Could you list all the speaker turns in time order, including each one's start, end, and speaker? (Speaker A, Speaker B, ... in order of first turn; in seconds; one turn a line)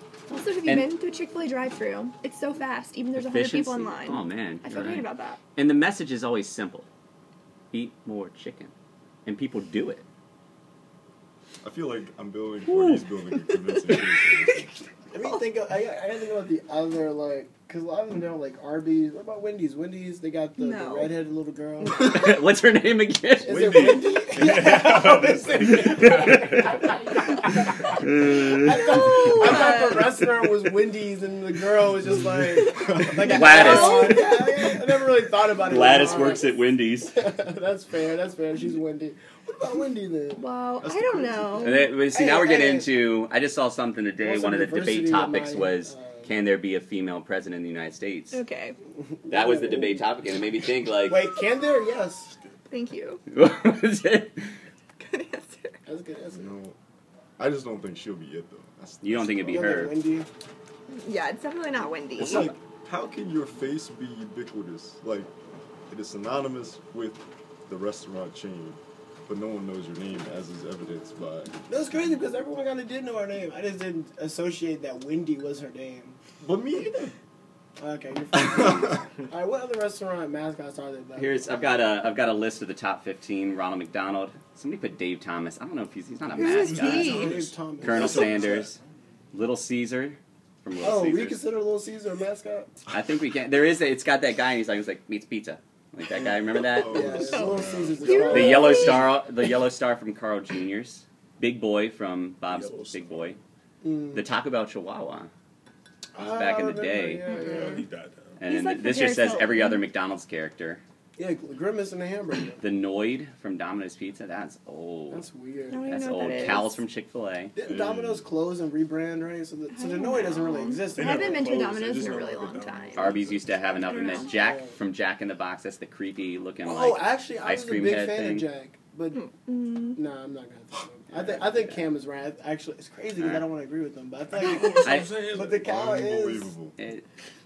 Speaker A: 0.3-5.4
Speaker B: 0.7-0.9
Speaker B: 3.1-6.9
Speaker B: 7.7-8.7
Speaker B: 9.2-10.1
Speaker C: 11.6-14.7
Speaker B: 12.7-13.0
Speaker D: 15.1-22.2
Speaker A: 20.6-21.2
Speaker A: 21.8-22.3
Speaker B: 22.0-24.0
Speaker D: 23.4-26.9
Speaker E: 23.5-26.4
Speaker B: 25.9-26.8
Speaker B: 27.9-28.7
Speaker D: 28.2-40.5
Speaker A: 28.7-30.1
Speaker A: 32.8-34.6
Speaker B: 33.2-34.5
Speaker B: 35.6-37.1
Speaker A: 40.4-41.9
Speaker C: 40.8-41.7
Speaker B: 41.6-48.4
Speaker D: 41.8-42.9
Speaker D: 44.2-46.3
Speaker A: 48.3-48.8
Speaker D: 49.0-50.0
Speaker B: 49.3-51.3
Speaker D: 51.0-52.3
Speaker A: 52.7-53.2
Speaker B: 53.3-54.5
Speaker A: 55.0-55.8
Speaker D: 55.8-56.5
Speaker C: 56.3-56.8
Speaker C: 57.4-59.8
Speaker B: 59.0-59.9
Speaker D: 59.5-60.3
Speaker A: 60.9-62.5
Speaker C: 62.2-65.3
Speaker B: 62.2-62.5
Speaker C: 65.9-71.5
Speaker D: 71.7-76.2
Speaker C: 76.4-77.1
Speaker D: 77.8-81.5
Speaker B: 81.1-87.2
Speaker A: 86.3-87.4
Speaker E: 86.5-88.7
Speaker D: 86.8-88.5
Speaker B: 87.8-88.8
Speaker B: 89.3-91.4
Speaker D: 90.8-92.8
Speaker B: 92.9-97.3
Speaker C: 96.5-98.3
Speaker D: 96.8-99.0
Speaker A: 97.3-99.1
Speaker E: 98.1-98.5
Speaker B: 98.2-103.4
Speaker E: 102.5-103.4
Speaker D: 103.8-104.2
Speaker B: 104.1-105.3
Speaker D: 106.1-107.8
Speaker B: 106.2-107.3
Speaker E: 107.3-108.4
Speaker B: 108.4-110.8
Speaker A: 108.4-109.8
Speaker D: 111.2-112.6
Speaker B: 112.6-115.2
Speaker D: 115.1-116.3
Speaker A: 115.7-116.8
Speaker B: 115.9-117.5
Speaker D: 117.5-121.5
Speaker C: 117.6-118.3
Speaker A: 119.7-123.1
Speaker E: 120.9-124.3
Speaker B: 123.0-128.5
Speaker A: 123.8-124.4
Speaker D: 124.3-124.8
Speaker D: 126.6-129.3
Speaker A: 129.1-130.0
Speaker D: 129.9-136.5
Speaker E: 131.2-131.5
Speaker B: 133.2-133.4
Speaker E: 134.3-135.7
Speaker B: 134.8-135.1
Speaker C: 135.6-136.7
Speaker B: 136.8-137.1